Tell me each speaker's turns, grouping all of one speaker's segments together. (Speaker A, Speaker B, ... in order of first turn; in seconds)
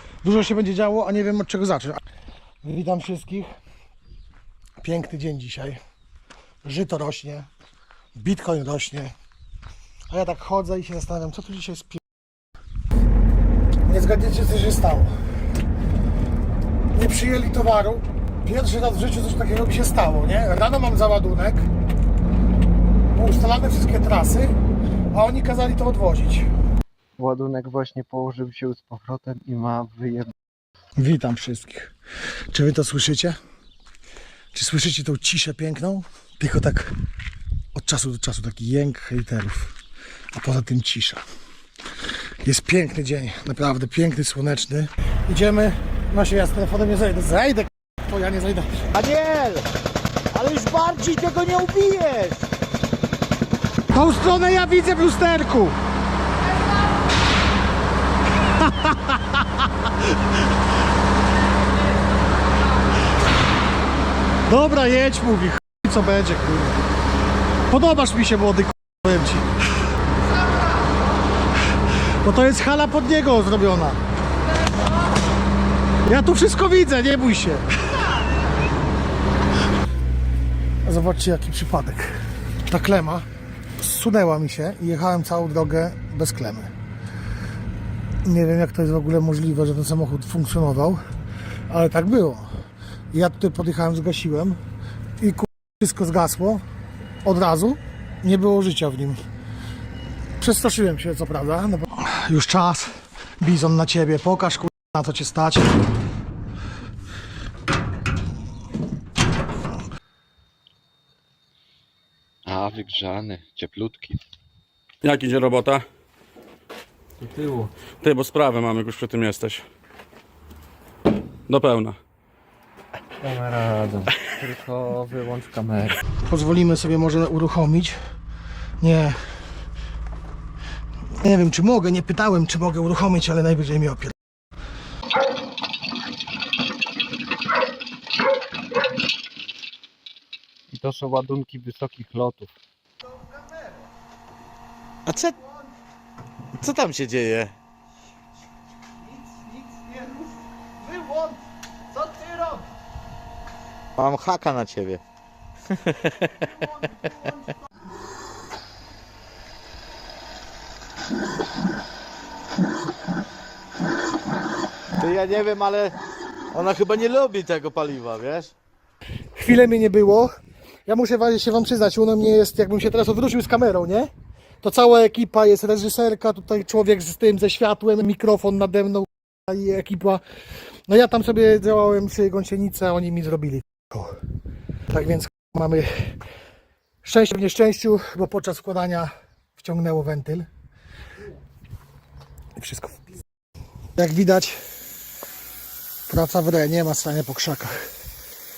Speaker A: 0.2-2.0, 2.6-3.5, 4.8-5.8, 6.6-7.5, 8.2-9.1, 10.1-12.0, 13.8-15.1, 16.9-21.7, 23.1-24.5, 25.1-26.5, 31.0-31.9, 32.5-33.4, 34.5-36.9, 37.7-39.8, 40.3-41.2, 42.4-48.9, 53.9-55.8, 64.5-66.8, 67.7-69.5, 72.1-74.0, 76.0-77.7, 80.8-83.2, 83.8-86.7, 88.2-91.0, 91.7-92.5, 93.1-94.6, 95.2-96.6, 97.2-99.2, 100.4-105.8, 126.2-128.0, 128.8-129.2, 131.2-134.1, 169.3-170.3, 170.9-174.1, 174.6-180.2, 180.9-184.2, 184.9-186.2, 187.0-190.5, 192.6-193.0, 194.0-194.6, 196.1-197.9
Speaker B: 27.2-30.3, 112.5-114.2, 123.2-125.9, 140.7-142.5, 152.0-152.3
Speaker C: 48.9-49.7, 50.3-52.5, 145.1-145.4, 146.6-147.5, 154.0-155.0, 155.7-157.2, 165.0-165.9, 166.5-168.5
Speaker D: 115.0-115.8, 118.0-119.6, 121.5-122.0